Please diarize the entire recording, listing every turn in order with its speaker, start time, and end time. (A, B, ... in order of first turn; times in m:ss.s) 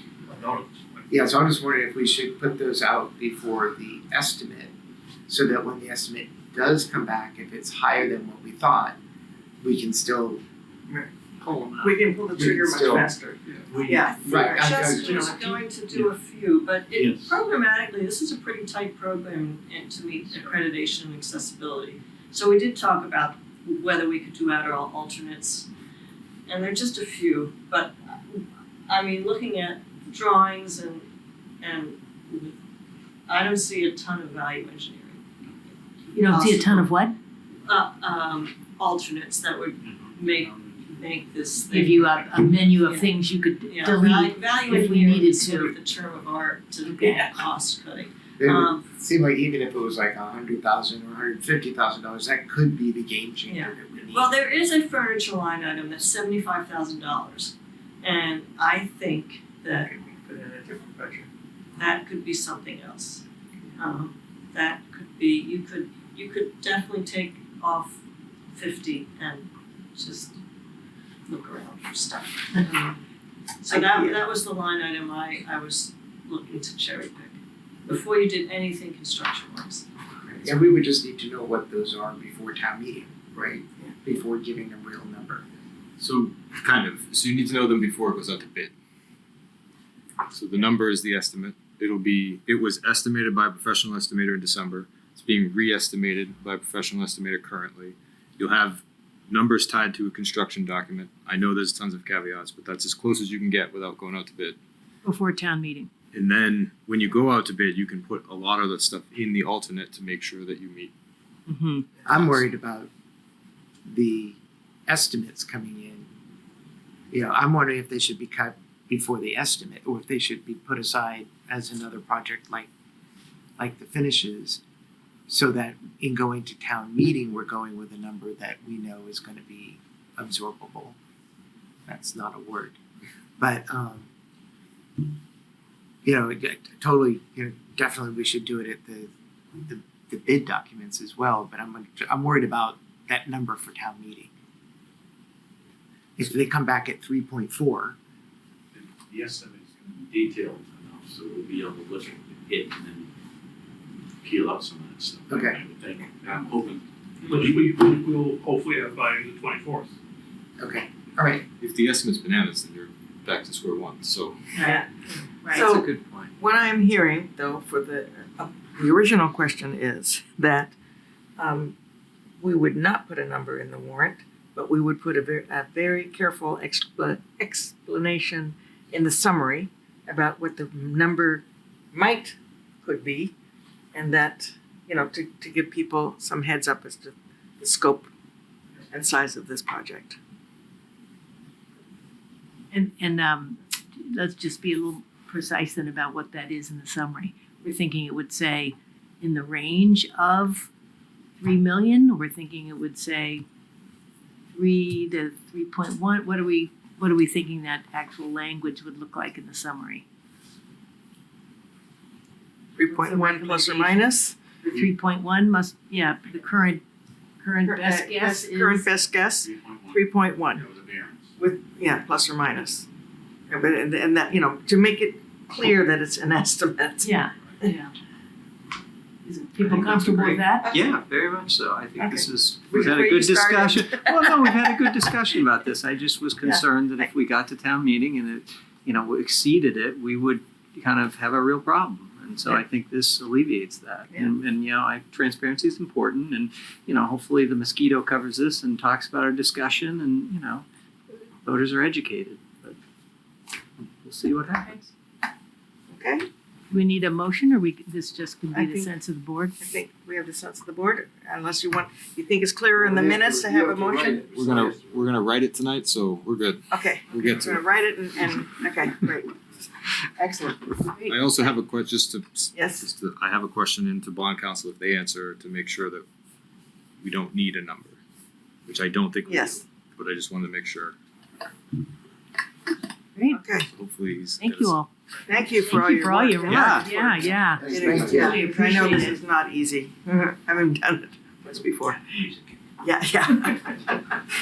0:00.3-0:01.1 A
0:01.1-0:04.7 B
0:05.3-0:09.0 B
0:09.6-0:10.4 B
0:11.4-0:12.0 C
0:11.8-0:15.7 D
0:12.3-0:13.1 B
0:13.7-0:14.5 E
0:14.0-0:25.7 F
0:14.2-0:15.3 B
0:16.9-0:17.4 E
0:26.5-0:31.0 F
0:31.6-0:32.6 F
0:33.3-0:35.2 F
0:36.1-0:37.2 G
0:36.3-0:36.9 F
0:37.7-0:48.8 F
0:39.8-0:40.8 E
0:41.7-0:45.7 G
0:46.8-0:47.3 G
0:48.4-0:54.3 B
0:53.5-0:59.9 F
0:59.8-1:01.3 D
1:01.8-1:03.2 F
1:03.8-1:08.0 F
1:08.5-1:10.4 F
1:11.3-1:13.0 F
1:13.6-1:19.8 F
1:13.7-1:14.2 D
1:20.4-1:25.5 B
1:26.0-1:28.7 H
1:30.3-1:44.6 H
1:45.0-1:45.9 G
1:46.1-1:50.9 H
1:51.5-1:51.9 G
1:52.1-1:52.9 B
1:53.9-1:56.1 B
1:57.1-2:02.7 B
2:03.6-2:04.6 B
2:05.3-2:11.0 B
2:11.9-2:12.8 B
2:13.4-2:14.1 B
2:16.0-2:19.1 B
2:19.6-2:24.3 B
2:26.2-2:28.0 B
2:28.7-2:33.1 E
2:34.2-2:37.6 E
2:35.3-2:35.6 B
2:37.3-2:39.9 A
2:40.6-2:41.4 B
2:41.6-2:44.4 H
2:44.5-2:44.8 G
2:44.6-2:50.7 D
2:45.4-2:45.7 G
2:45.6-2:46.3 C
2:51.4-2:51.8 D
2:52.4-3:03.3 D
3:03.9-3:08.1 D
3:08.9-3:10.2 D
3:12.7-3:20.7 G
3:21.4-3:23.5 G
3:24.5-3:30.1 G
3:32.8-3:34.4 D
3:32.9-3:36.8 G
3:37.4-3:38.9 G
3:37.6-3:40.6 D
3:39.4-3:41.4 E
3:41.4-3:42.9 D
3:43.5-3:47.7 D
3:47.0-3:47.9 G
3:49.2-3:50.7 G
3:49.6-4:10.7 C
3:52.0-3:55.0 D
3:56.4-3:57.1 D
4:11.4-4:12.8 C
4:13.8-4:14.8 C
4:15.9-4:16.3 D
4:16.7-4:19.6 G
4:18.5-4:18.9 D
4:19.6-4:24.3 D
4:24.2-4:27.6 H
4:26.7-4:30.8 D
4:30.9-4:31.2 G
4:31.1-4:36.0 H
4:32.5-4:32.9 D
4:37.0-4:38.0 H
4:38.7-4:41.0 H
4:39.3-4:39.6 D
4:43.2-4:43.4 G
4:43.3-4:43.7 D
4:43.7-4:44.8 H
4:44.4-4:44.9 G
4:45.3-4:52.0 D
4:45.7-4:49.2 G
4:46.5-4:46.9 C
4:47.6-4:48.4 B
4:52.8-4:54.2 D